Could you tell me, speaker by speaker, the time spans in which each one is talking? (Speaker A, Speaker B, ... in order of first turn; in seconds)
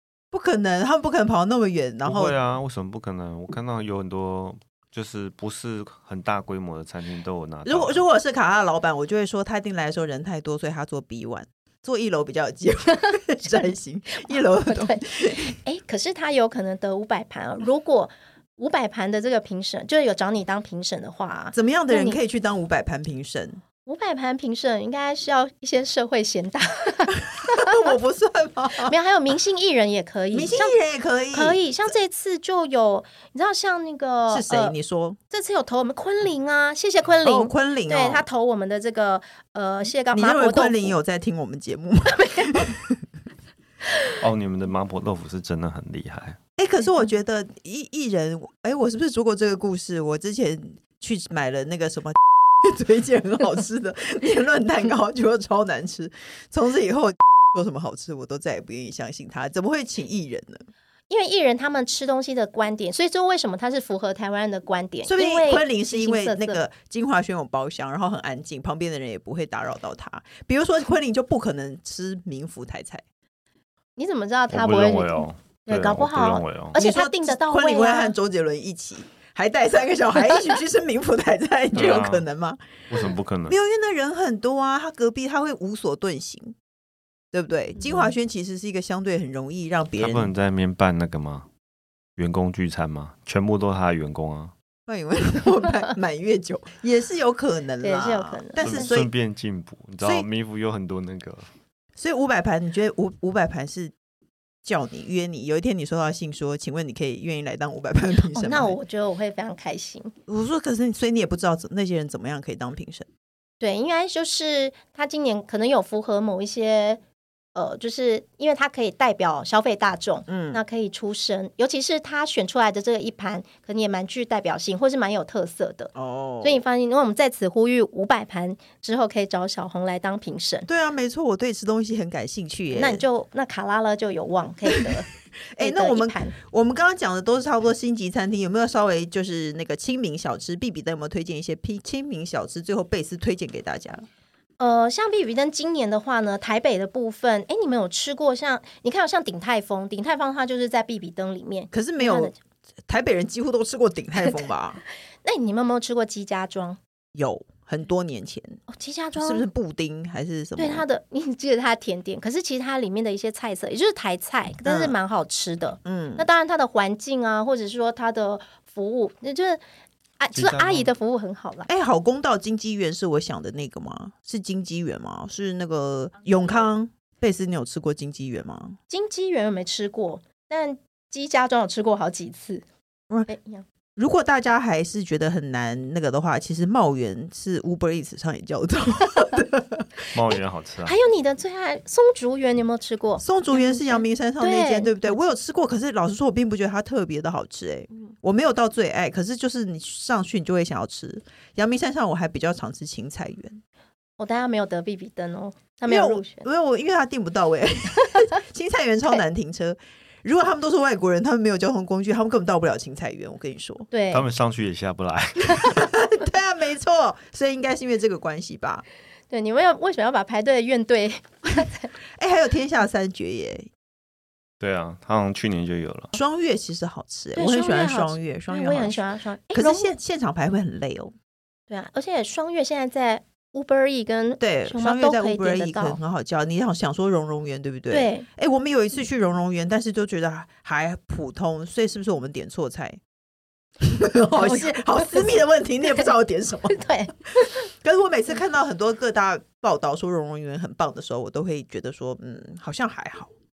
Speaker A: 0.3-2.3, 7.7-15.5, 21.5-23.6, 27.1-28.9, 30.3-31.6, 34.3-35.2, 37.2-38.2, 40.1-43.0, 46.6-60.6, 65.0-73.0, 76.8-82.8, 83.5-86.5, 87.3-90.3, 94.9-99.1, 102.0-103.9, 104.6-108.8, 110.3-113.1, 120.3-120.6, 125.9-126.6, 130.7-133.0, 135.6-144.0, 151.7-152.3, 152.9-154.8, 157.1-158.6, 159.2-160.8, 164.6-164.9, 165.8-166.3, 171.7-178.8, 184.0-190.1, 193.2-203.6, 205.8-213.9, 215.5-218.8, 222.2-223.7, 226.1-229.0, 229.5-231.1, 234.4-243.0, 243.8-246.8, 247.4-253.3
Speaker B: 2.0-8.0, 44.2-46.4, 74.5-76.8, 81.7-82.2, 82.9-83.5, 90.0-91.5, 92.2-94.5, 98.6-101.4, 170.3-170.9, 190.1-190.9, 214.1-215.9, 224.6-226.1
Speaker C: 14.3-22.2, 23.9-28.0, 28.8-30.7, 31.3-34.7, 35.3-41.0, 42.2-42.5, 61.1-66.6, 74.0-78.1, 97.8-98.9, 108.3-110.1, 113.6-117.0, 117.5-130.7, 132.7-136.3, 144.6-152.3, 154.2-154.5, 155.2-156.8, 158.7-159.5, 160.6-169.6, 170.2-171.7, 178.9-182.6, 183.3-183.6, 190.8-195.2, 204.2-206.5, 213.9-214.3, 219.3-221.9, 227.3-229.9, 231.7-236.0, 237.9-238.3, 244.4-245.3, 246.7-247.5